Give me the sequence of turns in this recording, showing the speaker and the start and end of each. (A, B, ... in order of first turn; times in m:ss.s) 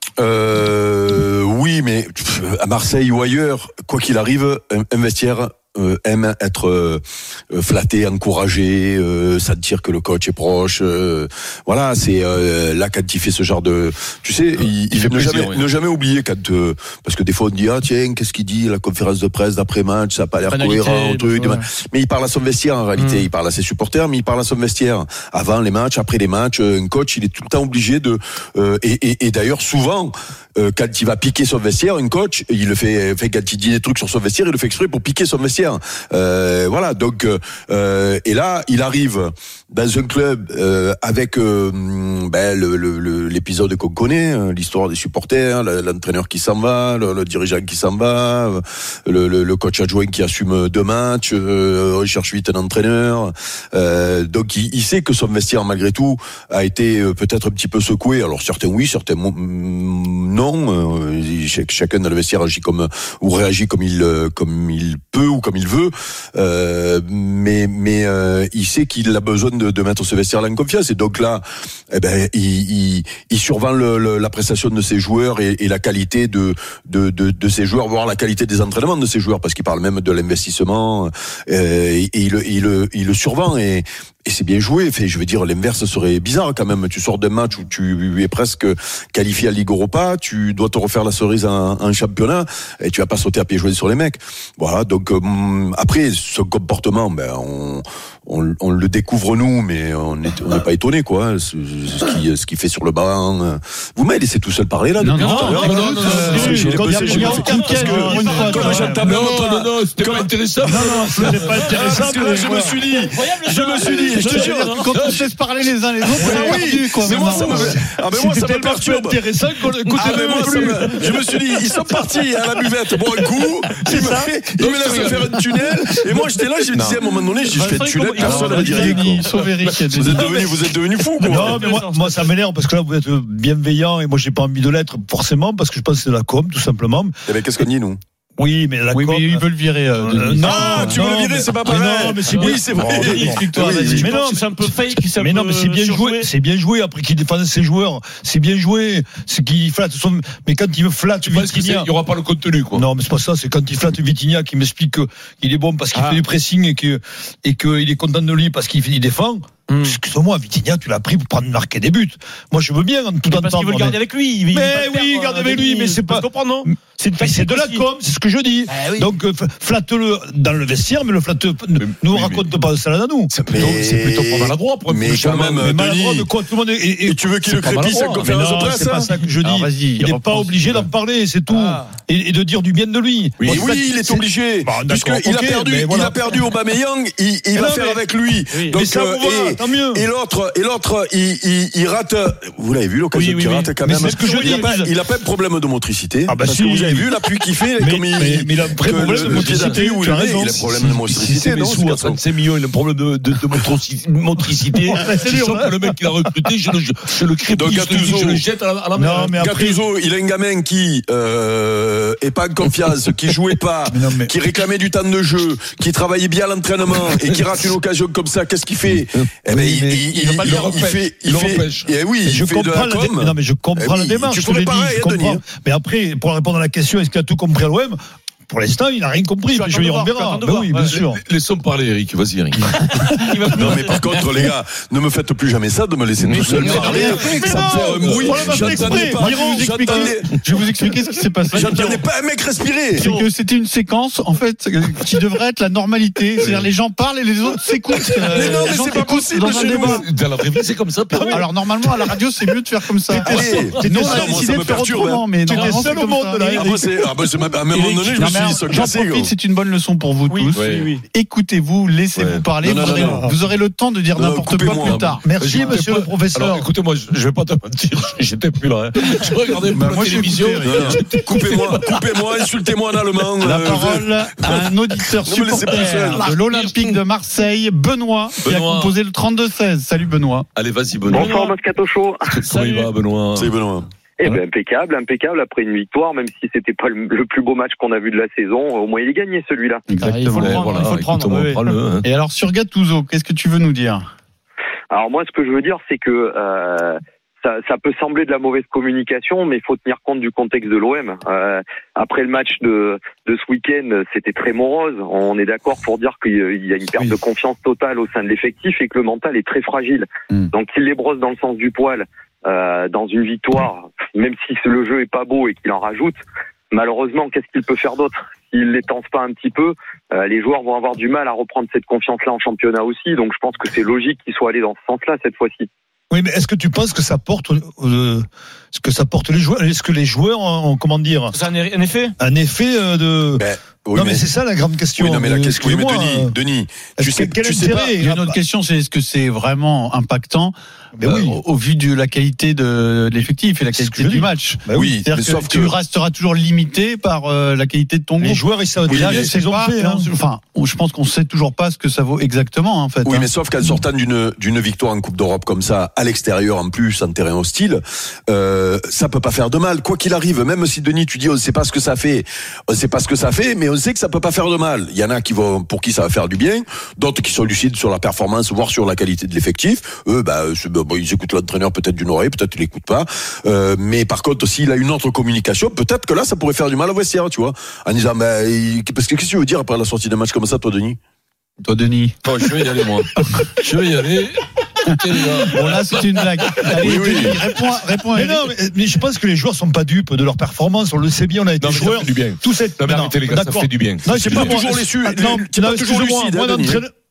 0:00.2-1:54.8 A
0:14.6-0:15.7 B
0:20.4-0:21.6 C
0:22.9-0:23.3 C
1:45.0-1:49.0 D
1:45.2-1:46.8 B
1:45.2-1:49.0 C
1:46.2-1:48.9 E
1:47.4-1:47.8 B
1:49.0-1:52.0 B
1:50.6-1:52.8 E
1:51.7-1:52.2 C
1:53.0-1:54.7 C
1:53.9-1:55.2 B
1:54.1-1:57.8 D
1:56.2-2:02.2 E
1:56.2-2:11.6 A
1:59.9-2:00.2 B
2:00.1-2:00.5 C
2:03.8-2:04.3 E
2:04.6-2:05.3 B
2:07.5-2:09.5 C
2:08.2-2:10.4 D
2:08.5-2:08.8 E
2:10.0-2:10.6 E
2:11.2-2:12.3 C
2:11.2-2:17.2 E
2:17.3-2:18.0 A
2:18.4-2:19.4 E
2:18.9-2:21.0 D
2:20.0-2:24.5 E
2:20.4-2:24.1 A
2:22.2-2:26.3 C
2:25.1-2:31.9 E
2:31.2-2:32.8 B
2:32.7-2:53.3 E
2:35.9-2:36.2 C
2:39.7-2:40.0 C
2:43.2-2:47.8 C
2:51.8-2:52.5 B
2:53.3-2:55.7 B
2:53.5-2:56.3 A
2:55.6-3:06.4 E
2:57.0-2:59.1 A
2:57.6-2:58.2 B
2:59.4-3:00.9 D
3:03.4-3:03.6 B
3:03.4-3:22.2 A
3:07.5-3:08.0 E
3:08.6-3:10.0 E
3:13.1-3:14.8 C
3:13.2-3:14.9 E
3:16.3-3:17.2 E
3:17.8-3:21.5 E
3:18.9-3:19.9 B
3:21.1-3:29.4 B
3:24.9-3:26.2 E
3:27.5-3:28.4 A
3:28.9-3:29.8 E
3:29.4-3:45.4 A
3:33.8-3:34.3 E
3:36.9-3:37.7 B
3:39.4-3:40.6 E
3:40.1-3:41.9 B
3:42.2-3:51.2 E
3:49.5-3:50.9 C
3:50.9-3:53.1 B
3:52.9-3:54.1 C
3:53.5-4:00.4 A
3:56.2-3:58.8 B
3:56.6-4:00.1 E
3:56.7-3:57.7 C
3:56.8-3:57.2 D
3:58.6-4:02.0 D
4:01.5-4:03.1 A
4:02.9-4:10.0 D
4:08.1-4:11.5 B
4:08.2-4:10.0 A
4:11.3-4:16.6 D
4:13.1-4:17.1 E
4:13.2-4:15.3 A
4:15.5-4:15.7 B
4:16.5-4:19.3 A
4:18.2-4:25.2 D
4:20.3-4:21.0 C
4:20.5-4:20.9 B
4:22.1-4:22.4 B
4:22.6-4:23.2 A
4:22.6-4:23.4 E
4:24.1-4:25.1 A
4:24.8-4:32.0 B
4:25.2-4:26.7 E
4:29.7-4:31.1 D
4:30.6-4:34.6 A
4:33.4-4:40.5 D
4:35.2-4:36.3 A
4:36.0-4:37.0 B
4:38.4-4:39.0 B
4:40.6-4:41.4 B
4:41.1-4:42.4 F
4:41.1-4:41.6 C
4:42.3-4:43.5 B
4:42.4-4:42.9 C
4:43.3-4:43.9 A
4:44.2-4:49.9 F
4:49.9-4:50.8 D
4:50.0-4:51.6 C
4:50.4-4:52.0 B
4:52.0-4:54.1 D
4:54.9-5:16.2 F
5:16.7-5:25.7 F
5:26.1-5:31.4 E
5:31.3-5:32.1 C
5:32.2-5:36.4 E
5:33.4-5:34.2 A
5:35.0-5:37.9 A
5:37.0-5:38.4 E
5:38.0-5:53.3 D
5:41.0-5:41.4 E
5:43.7-5:45.0 E
5:44.7-5:45.8 A
5:48.2-5:50.1 E
5:48.9-5:49.3 A
5:53.0-6:21.0 A
6:21.6-6:22.2 D
6:22.2-6:27.4 B
6:25.4-6:28.5 D
6:26.8-6:27.4 A
6:28.1-6:36.9 E
6:31.6-6:34.6 B
6:34.1-6:36.8 A